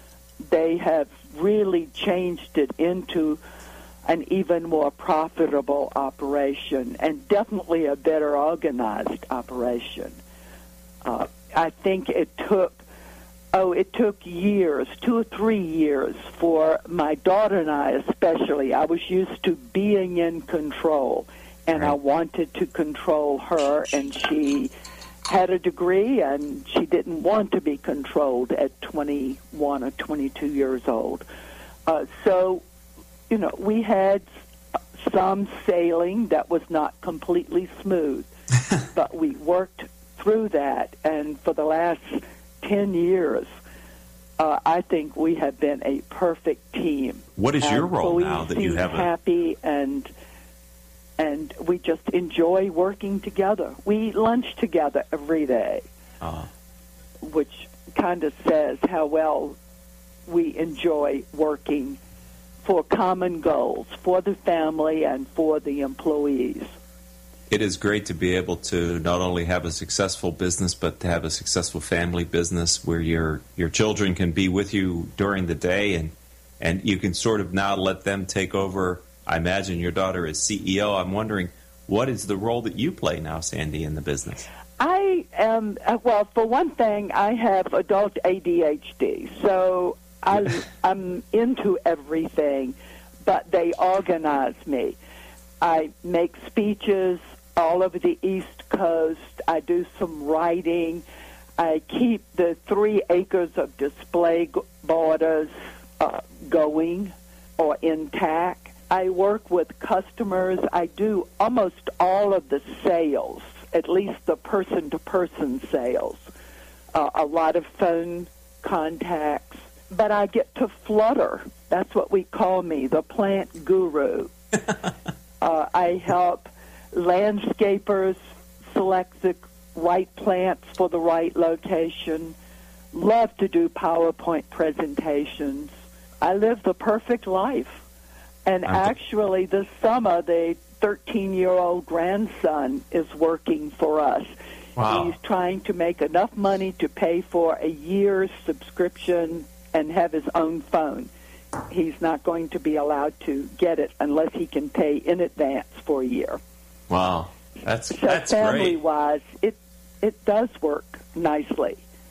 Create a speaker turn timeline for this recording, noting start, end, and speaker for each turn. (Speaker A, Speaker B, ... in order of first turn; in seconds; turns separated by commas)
Speaker A: 0.4-3.4, Speaker A: 4.1-10.2, Speaker A: 11.0-12.8, Speaker A: 13.5-24.7, Speaker A: 25.3-31.2, Speaker A: 31.9-32.6, Speaker A: 33.3-34.2, Speaker A: 35.0-38.3, Speaker A: 38.9-43.5, Speaker A: 44.4-50.1, Speaker B: 47.4-49.1, Speaker A: 51.2-55.9, Speaker B: 56.2-56.5, Speaker A: 57.2-59.6, Speaker A: 60.3-62.0, Speaker A: 62.6-66.7, Speaker B: 67.5-84.5, Speaker A: 84.8-95.0, Speaker A: 95.6-101.0, Speaker A: 101.6-116.2, Speaker A: 116.9-124.3, Speaker A: 125.4-128.2, Speaker A: 128.7-132.3, Speaker A: 132.9-137.8, Speaker A: 138.5-144.3, Speaker B: 144.8-145.1, Speaker A: 144.9-151.1, Speaker A: 151.7-156.4, Speaker B: 156.9-158.8, Speaker A: 157.9-161.8